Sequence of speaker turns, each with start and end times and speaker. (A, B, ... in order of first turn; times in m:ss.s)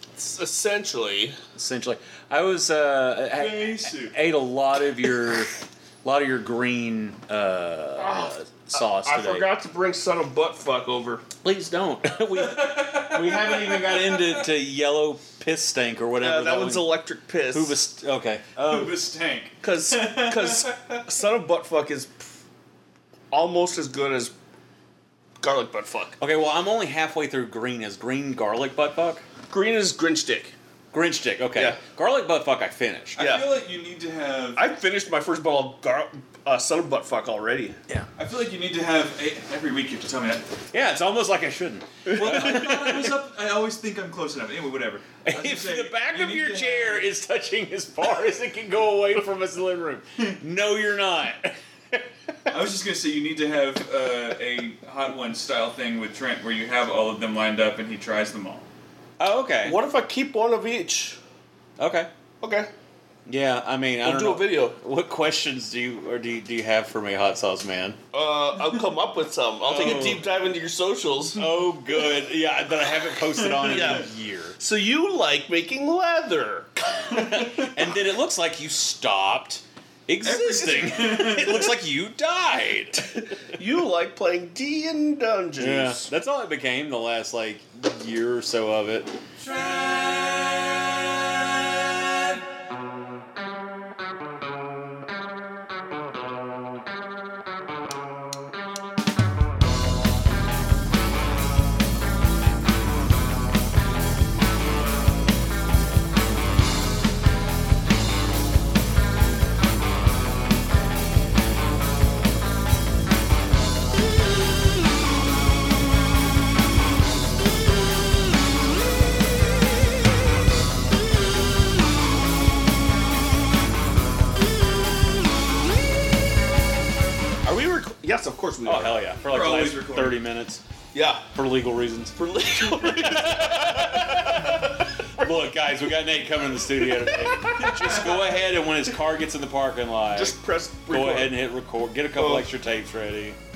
0:00.2-0:01.4 A
0:01.5-0:09.5 B
0:03.3-0:04.1 C
0:08.0-0:11.2 A
0:11.4-0:18.9 B
0:12.3-0:14.4 C
0:16.2-0:17.8 A
0:18.6-0:21.0 C
0:19.6-0:22.3 A
0:23.3-0:24.3 A
0:25.4-0:26.2 A
0:26.2-0:29.2 B
0:29.5-0:30.5 A
0:30.9-0:33.2 B
0:33.2-0:34.6 C
0:33.2-0:33.5 A
0:34.6-0:37.8 A
0:38.2-0:40.5 C
0:40.7-0:43.1 B
0:42.1-0:47.1 C
0:42.3-0:42.5 A
0:45.2-0:52.0 B
0:52.5-0:58.7 C
0:59.2-0:59.8 B
0:59.6-1:01.2 A
1:01.8-1:02.1 B
1:02.4-1:02.7 A
1:03.3-1:08.0 B
1:04.0-1:04.8 A
1:08.1-1:11.4 A
1:09.7-1:10.2 B
1:11.3-1:14.6 B
1:13.4-1:14.0 C
1:13.6-1:14.0 A
1:14.6-1:17.2 A
1:17.1-1:23.0 B
1:20.2-1:21.8 C
1:23.0-1:26.0 A
1:25.6-1:30.5 B
2:07.4-2:09.0 A
2:08.6-2:10.6 B
2:09.2-2:10.2 C
2:10.9-2:11.3 A
2:11.3-2:20.4 B
2:12.2-2:15.3 A
2:16.8-2:17.7 A
2:17.6-2:18.2 C
2:20.1-2:21.4 A
2:20.9-2:23.4 B
2:22.2-2:22.5 A